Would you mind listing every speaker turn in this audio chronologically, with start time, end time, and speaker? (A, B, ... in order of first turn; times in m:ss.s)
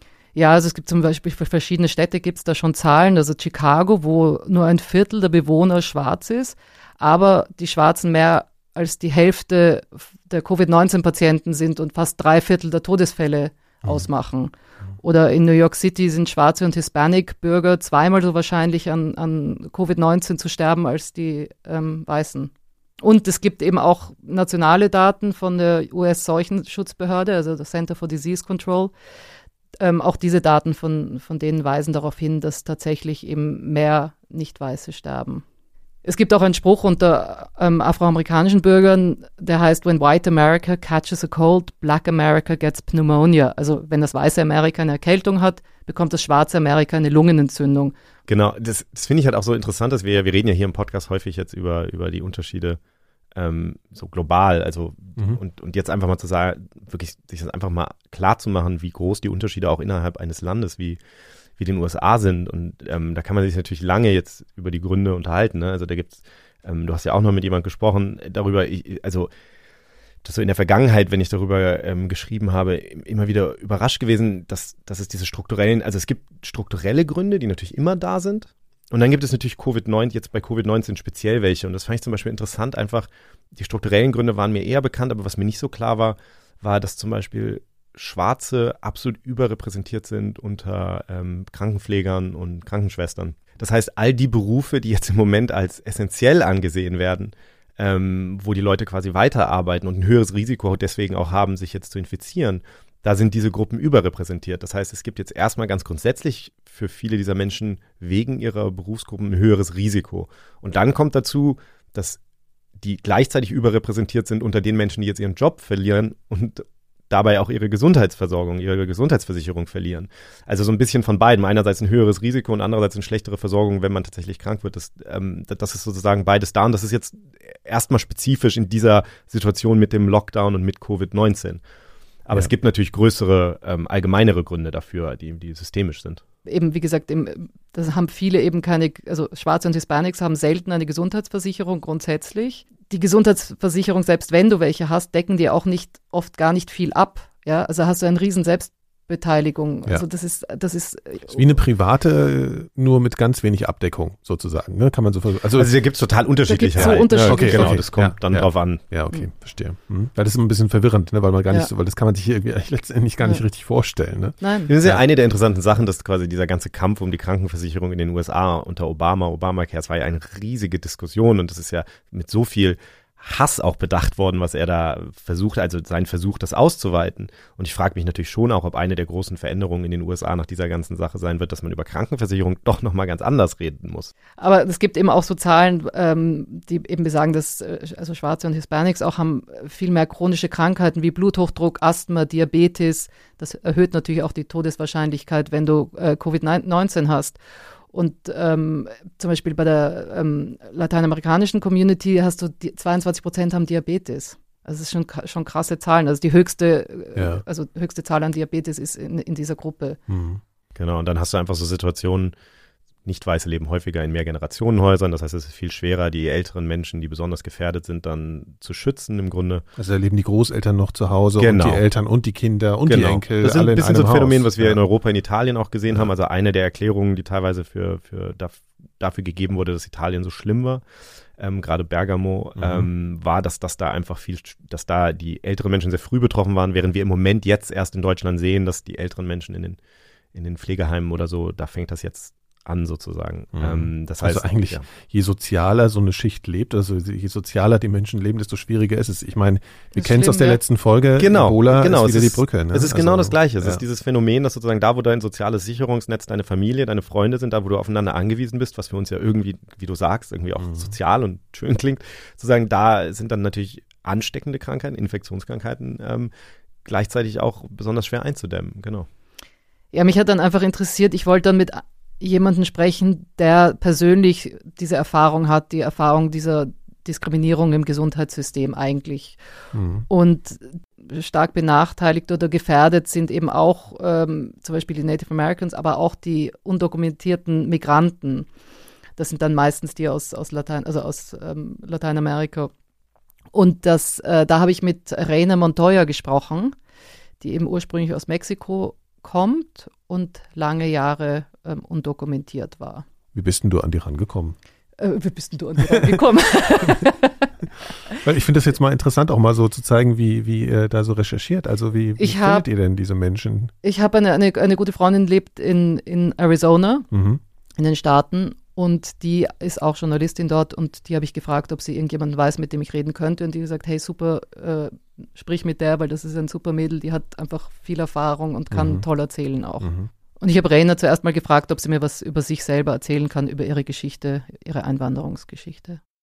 0:00.4-0:22.5 A
0:23.0-0:28.9 A
0:29.8-0:35.4 A
0:36.0-0:48.0 A
0:48.3-0:52.8 B
0:53.3-1:01.0 B
1:01.6-1:09.3 B
1:10.2-1:52.2 B
1:52.8-2:11.6 B
2:12.3-2:16.2 B
2:16.5-2:31.5 A
2:31.3-2:35.7 C
2:35.6-2:38.8 B
2:36.5-2:37.8 A
2:36.8-2:45.0 C
2:44.4-2:44.7 A
2:44.7-3:04.1 B
3:04.4-3:17.4 A
3:17.9-3:30.0 A
3:27.2-3:27.4 C
3:30.1-3:30.4 C
3:30.8-3:32.3 B
3:33.0-3:39.6 B
3:39.8-3:44.8 C
3:41.4-3:41.8 B
3:42.9-3:50.8 B
3:51.4-3:59.8 B
3:52.6-3:52.9 C
4:00.3-4:04.9 B
4:03.6-4:13.8 C
4:10.0-4:10.6 A
4:11.2-4:26.3 B
4:20.6-4:20.9 C
4:26.8-4:29.1 B
4:29.9-4:39.4 A
4:39.7-4:40.1 C
4:40.1-4:48.5 A
4:49.2-4:52.7 A
4:53.5-4:56.8 A
4:57.4-5:03.0 A
5:03.3-5:04.6 C
5:05.0-5:07.4 A
5:05.9-5:07.0 C
5:08.1-5:13.7 C
5:12.2-5:12.6 A
5:13.8-5:17.1 A
5:17.1-5:17.4 C
5:17.8-5:29.9 A
5:28.7-5:29.1 C
5:29.8-5:30.1 C
5:30.4-5:36.0 A